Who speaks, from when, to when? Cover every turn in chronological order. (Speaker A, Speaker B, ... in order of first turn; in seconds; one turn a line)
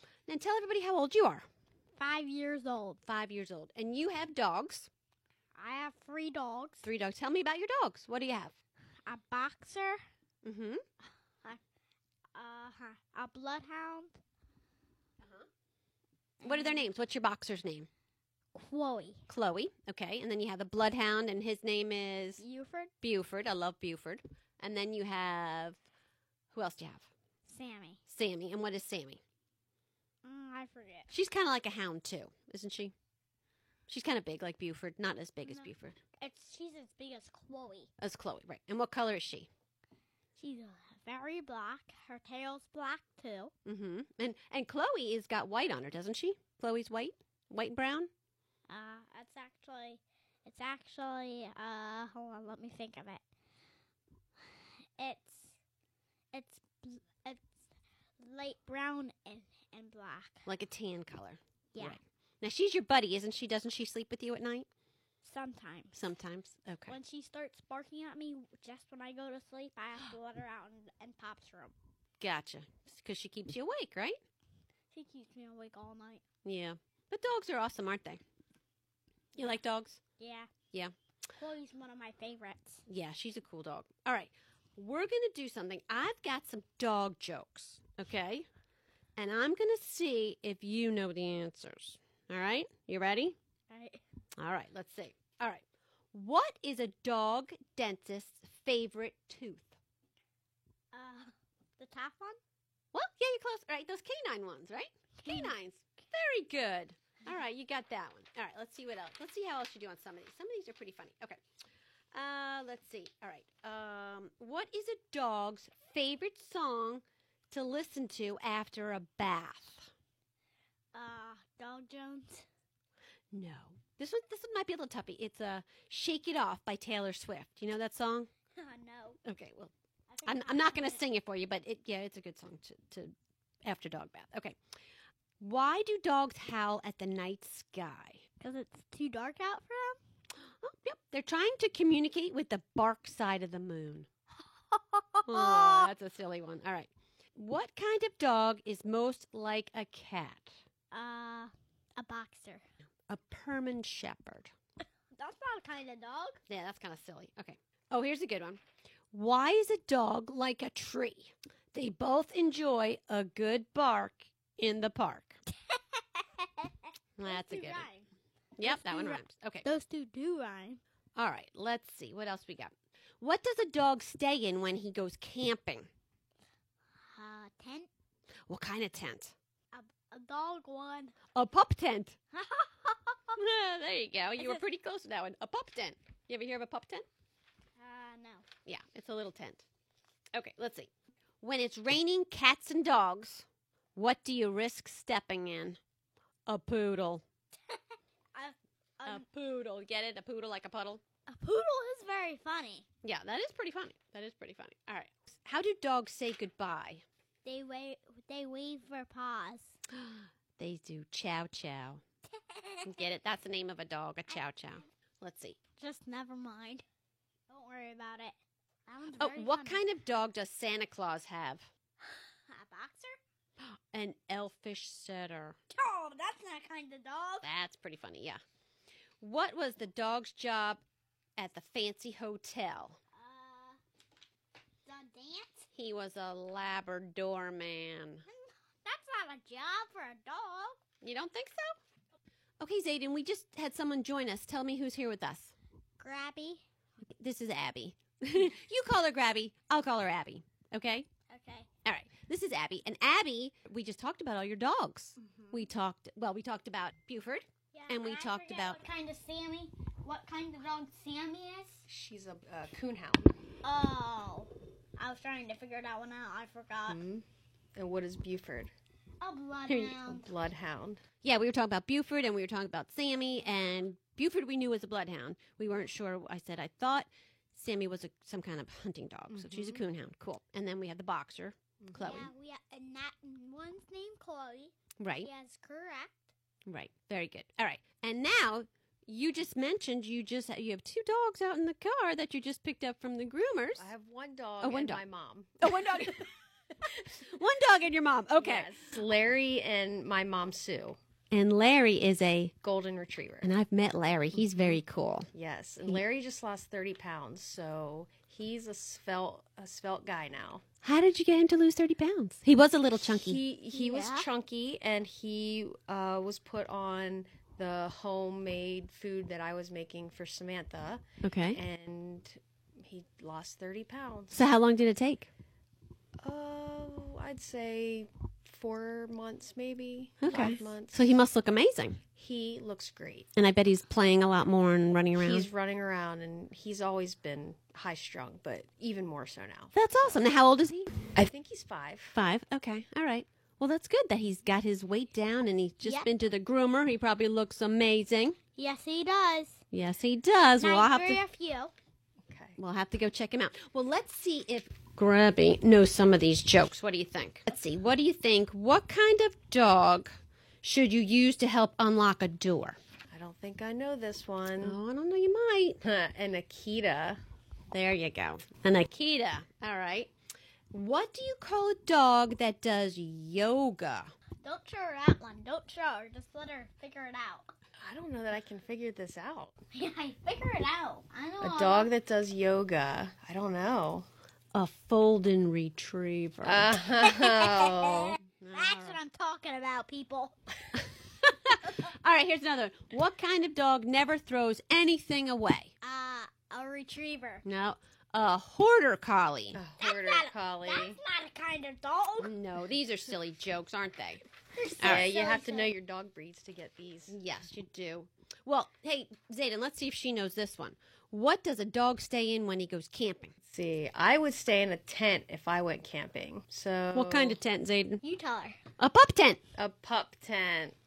Speaker A: 0.3-1.4
Speaker B: 2.0-3.0
Speaker A: 3.0-4.9
Speaker B: 5.5-6.9
Speaker A: 6.8-8.6
Speaker B: 9.1-10.0
Speaker A: 10.4-10.8
Speaker B: 12.3-14.2
Speaker A: 15.2-15.4
Speaker B: 16.4-16.8
Speaker A: 16.4-17.9
Speaker B: 18.5-19.2
Speaker A: 19.3-22.4
Speaker B: 22.4-22.9
Speaker A: 23.0-25.8
Speaker A: 26.5-27.1
Speaker B: 27.5-28.0
Speaker A: 28.1-29.2
Speaker B: 30.2-31.1
Speaker A: 31.1-32.9
Speaker A: 33.9-36.0
Speaker B: 35.5-37.9
Speaker A: 38.0-39.5
Speaker B: 40.4-43.5
Speaker A: 43.6-48.1
Speaker B: 48.7-53.2
Speaker B: 55.0-55.5
Speaker B: 56.3-57.5
Speaker B: 58.2-60.5
Speaker A: 60.5-64.7
Speaker B: 61.7-62.0
Speaker B: 65.2-65.9
Speaker A: 65.9-67.0
Speaker B: 66.9-71.7
Speaker A: 72.2-74.2
Speaker B: 74.9-76.2
Speaker A: 76.4-78.2
Speaker A: 79.3-80.0
Speaker B: 80.2-80.5
Speaker B: 81.4-82.8
Speaker A: 82.9-88.5
Speaker A: 89.2-93.3
Speaker B: 93.7-94.0
Speaker A: 94.4-99.8
Speaker B: 100.9-102.4
Speaker A: 102.9-111.4
Speaker B: 105.2-105.5
Speaker A: 112.1-119.9
Speaker B: 120.9-122.5
Speaker A: 123.3-128.3
Speaker B: 128.6-129.2
Speaker A: 129.2-129.7
Speaker B: 130.1-131.0
Speaker A: 130.2-134.6
Speaker A: 135.4-138.2
Speaker B: 138.4-140.0
Speaker A: 140.5-144.1
Speaker B: 144.7-145.9
Speaker A: 145.3-150.6
Speaker B: 150.9-152.6
Speaker A: 153.1-154.5
Speaker B: 155.2-156.4
Speaker A: 156.5-158.6
Speaker A: 159.1-165.4
Speaker B: 165.7-168.1
Speaker A: 167.2-167.9
Speaker A: 168.6-169.6
Speaker B: 168.6-170.8
Speaker A: 171.2-175.9
Speaker B: 177.1-177.9
Speaker A: 178.5-179.3
Speaker B: 179.7-181.1
Speaker A: 181.3-182.2
Speaker B: 182.3-183.4
Speaker A: 183.3-187.1
Speaker B: 184.4-184.6
Speaker B: 187.8-188.4
Speaker A: 188.6-189.6
Speaker A: 190.3-190.9
Speaker A: 191.4-195.8
Speaker A: 196.5-197.2
Speaker B: 198.3-199.2
Speaker A: 199.0-201.0
Speaker B: 201.3-202.8
Speaker A: 203.0-207.0
Speaker B: 207.4-209.8
Speaker A: 209.9-212.0
Speaker B: 212.4-213.0
Speaker A: 212.8-215.6
Speaker B: 215.8-216.8
Speaker B: 217.5-218.3
Speaker B: 218.9-219.8
Speaker A: 219.2-221.7
Speaker B: 222.1-223.2
Speaker A: 223.6-225.5
Speaker B: 225.7-227.4
Speaker A: 227.4-228.4
Speaker A: 229.2-230.8
Speaker A: 231.4-233.0
Speaker B: 233.1-233.8
Speaker B: 234.8-235.7
Speaker A: 235.7-238.2
Speaker B: 238.3-240.8
Speaker A: 241.0-241.8
Speaker A: 242.6-245.5
Speaker B: 246.0-246.6
Speaker A: 247.2-251.1
Speaker B: 251.3-251.7
Speaker A: 251.8-258.8
Speaker B: 257.7-261.8
Speaker C: 261.9-263.4
Speaker B: 263.6-267.0
Speaker C: 266.9-267.2
Speaker C: 267.8-268.7
Speaker B: 269.2-270.3
Speaker C: 269.7-271.0
Speaker A: 271.2-282.3
Speaker C: 279.3-279.8
Speaker C: 281.8-282.1
Speaker B: 282.0-286.2
Speaker A: 285.0-285.3
Speaker A: 286.7-293.9
Speaker C: 293.8-296.2
Speaker A: 294.6-295.0
Speaker A: 295.6-296.3
Speaker A: 297.1-298.7
Speaker C: 298.4-301.0
Speaker A: 301.3-302.5
Speaker C: 302.6-303.5
Speaker A: 303.4-305.3
Speaker C: 304.3-304.8
Speaker C: 305.3-310.6
Speaker A: 310.8-313.4
Speaker C: 313.1-324.4
Speaker B: 313.7-314.3
Speaker A: 321.2-321.6
Speaker A: 324.3-325.3
Speaker C: 326.2-331.2
Speaker A: 330.2-332.0
Speaker C: 332.1-333.3
Speaker A: 333.3-335.5
Speaker C: 335.1-340.2
Speaker A: 339.7-340.9
Speaker C: 341.1-342.2
Speaker A: 342.1-348.4
Speaker B: 345.8-346.1
Speaker B: 348.6-349.6
Speaker A: 349.7-351.2
Speaker B: 350.6-351.7
Speaker C: 352.2-352.6
Speaker A: 352.6-362.8
Speaker C: 363.1-364.8
Speaker A: 364.6-365.8
Speaker C: 365.8-367.2
Speaker A: 367.7-370.1
Speaker A: 370.7-374.1
Speaker B: 374.4-377.5
Speaker C: 377.8-379.5
Speaker B: 379.7-381.9
Speaker C: 381.4-384.1
Speaker A: 384.5-386.8
Speaker C: 386.4-388.2
Speaker B: 386.9-390.4
Speaker A: 388.3-389.0
Speaker A: 390.7-395.7
Speaker B: 395.8-397.4
Speaker A: 397.4-399.6
Speaker C: 399.5-401.0
Speaker B: 399.8-402.4
Speaker A: 402.2-404.2
Speaker B: 404.5-405.7
Speaker A: 404.8-405.1
Speaker C: 404.8-407.2
Speaker A: 407.1-413.3
Speaker C: 413.5-417.4
Speaker A: 416.9-418.0
Speaker B: 418.0-418.6
Speaker A: 418.8-419.4
Speaker C: 419.6-420.7